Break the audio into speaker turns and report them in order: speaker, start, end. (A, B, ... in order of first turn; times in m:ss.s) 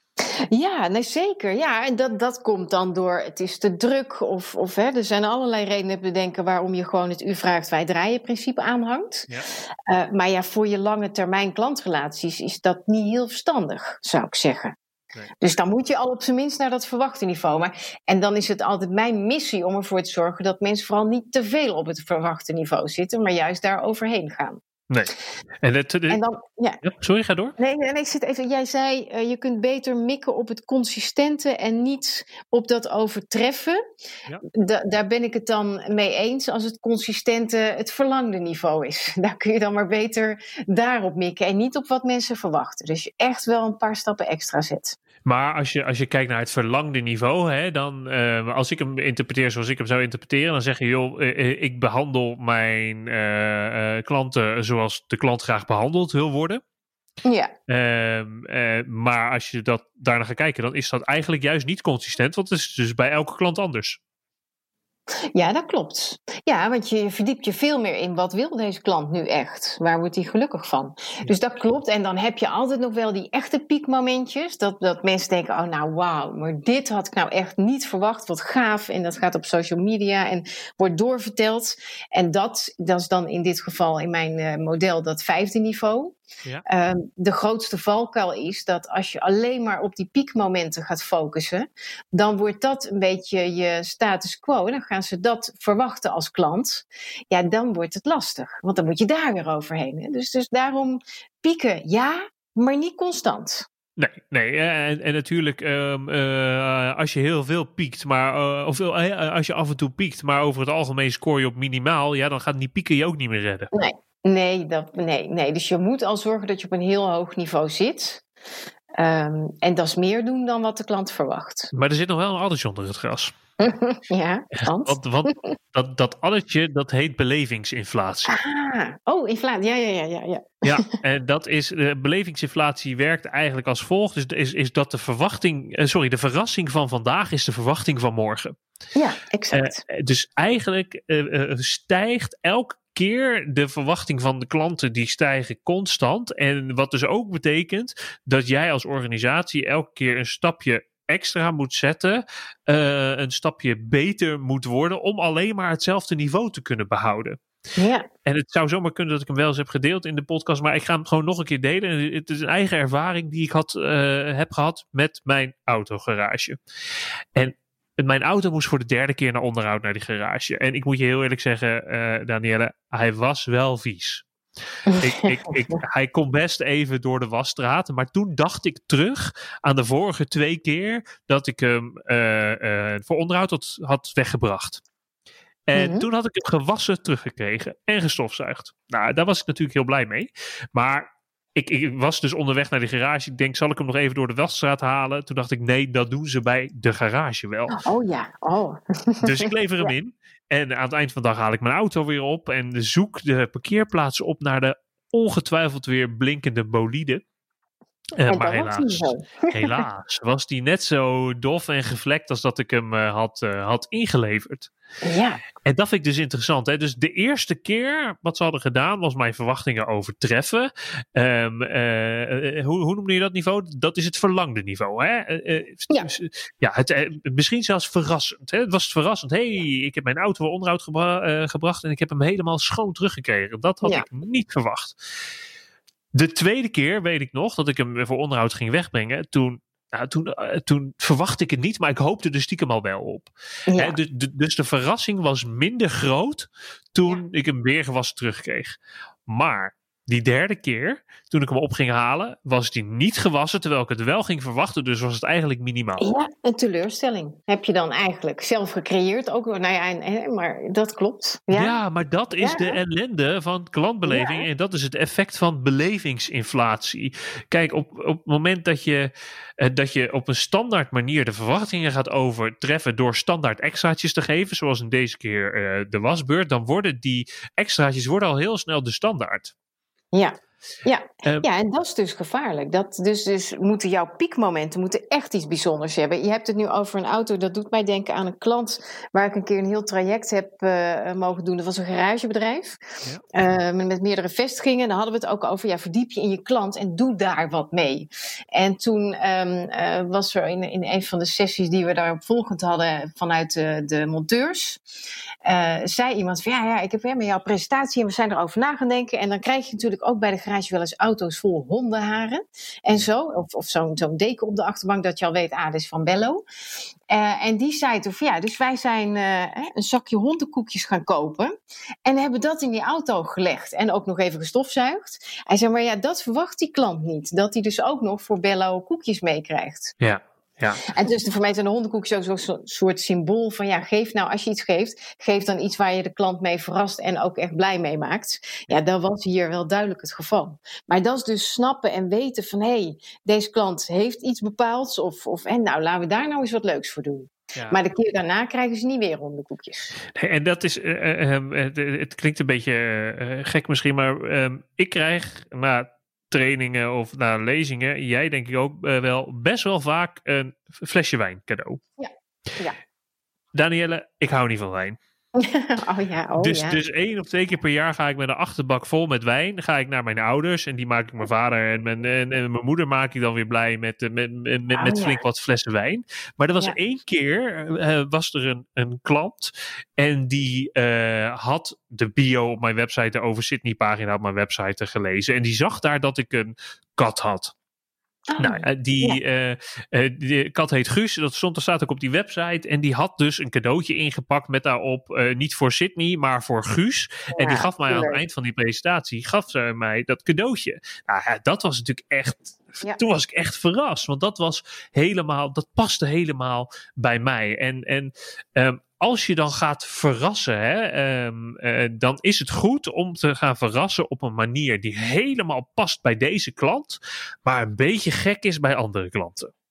0:00.5-0:09.3 A
0:09.9-0:14.7 A
0:15.4-0:24.6 A
0:25.6-0:26.2 B
0:26.1-0:26.8 A
0:26.8-0:27.5 B
0:27.6-0:33.8 A
0:34.5-0:45.0 A
0:45.2-0:56.6 B
0:57.2-0:57.5 A
0:57.7-1:04.0 B
1:05.3-1:43.6 A
1:44.0-1:53.7 B
1:53.7-1:58.2 A
1:59.0-2:01.7 A
2:01.7-2:03.3 B
2:03.6-2:05.3 A
2:04.6-2:08.4 B
2:08.3-2:10.9 A
2:10.6-2:18.5 B
2:18.9-2:19.8 A
2:19.5-2:37.4 B
2:37.8-2:38.1 A
2:38.2-2:46.6 B
2:47.3-2:54.2 B
2:54.9-2:55.8 A
2:55.0-3:04.8 B
3:05.7-3:17.8 B
3:05.7-3:06.1 A
3:17.7-3:19.9 A
3:19.2-3:27.2 B
3:28.2-3:34.7 B
3:28.3-3:29.8 A
3:35.0-3:35.4 A
3:35.6-3:55.0 B
3:56.1-4:16.0 B
4:03.7-4:04.0 A
4:16.0-4:21.8 A
4:21.5-4:39.5 B
4:22.4-4:22.8 A
4:24.1-4:24.5 A
4:40.1-4:52.8 A
4:53.3-5:04.8 A
5:05.4-5:16.4 A
5:17.1-5:21.5 A
5:22.0-5:29.9 A
5:30.0-5:30.8 B
5:30.9-5:50.0 A
5:50.1-6:01.8 B
6:02.0-6:02.8 A
6:03.5-6:05.0 B
6:05.4-6:06.8 A
6:06.4-6:27.5 B
6:14.7-6:15.2 A
6:28.3-6:29.2 A
6:28.4-6:59.5 B
6:37.3-6:38.2 A